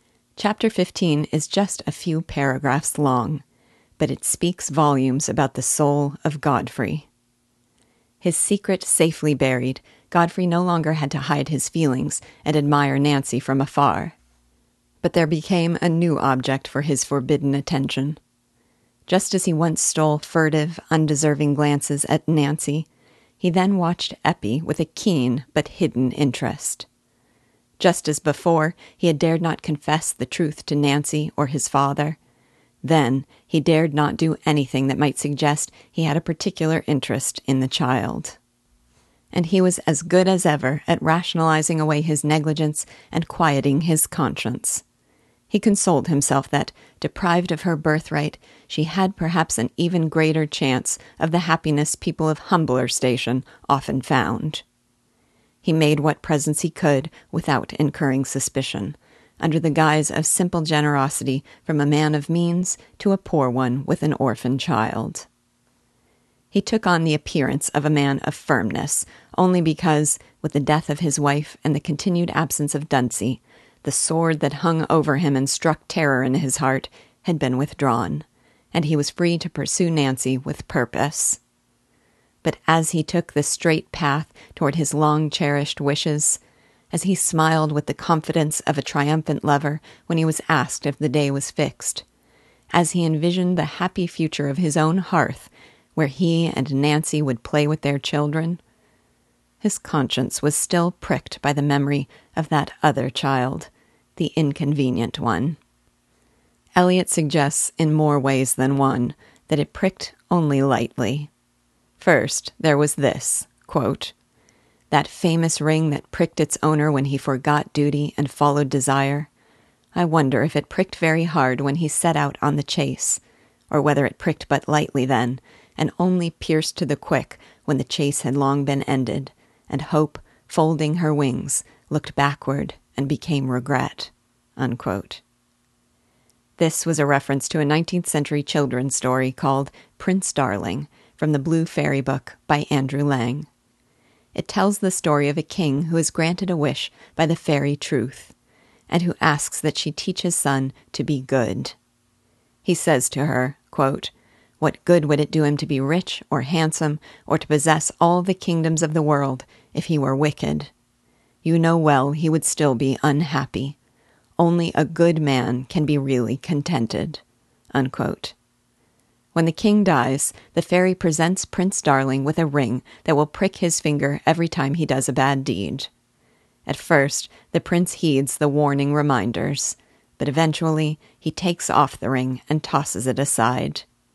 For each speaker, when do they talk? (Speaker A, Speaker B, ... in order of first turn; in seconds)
Speaker A: 0.4-3.4, 4.0-7.1, 8.2-14.2, 15.0-18.2, 19.1-22.9, 23.4-26.9, 27.8-32.2, 32.8-38.4, 39.3-44.8, 45.5-54.6, 55.6-65.3, 66.5-81.4, 82.4-86.4, 86.9-92.0, 92.7-98.6, 99.6-105.6, 106.8-111.3, 112.0-114.1, 114.9-119.3, 119.9-135.2, 136.6-143.5, 144.3-148.3, 148.9-151.8, 152.6-160.7, 161.4-163.8, 164.4-167.2, 167.7-168.3, 169.3-175.9, 176.7-183.9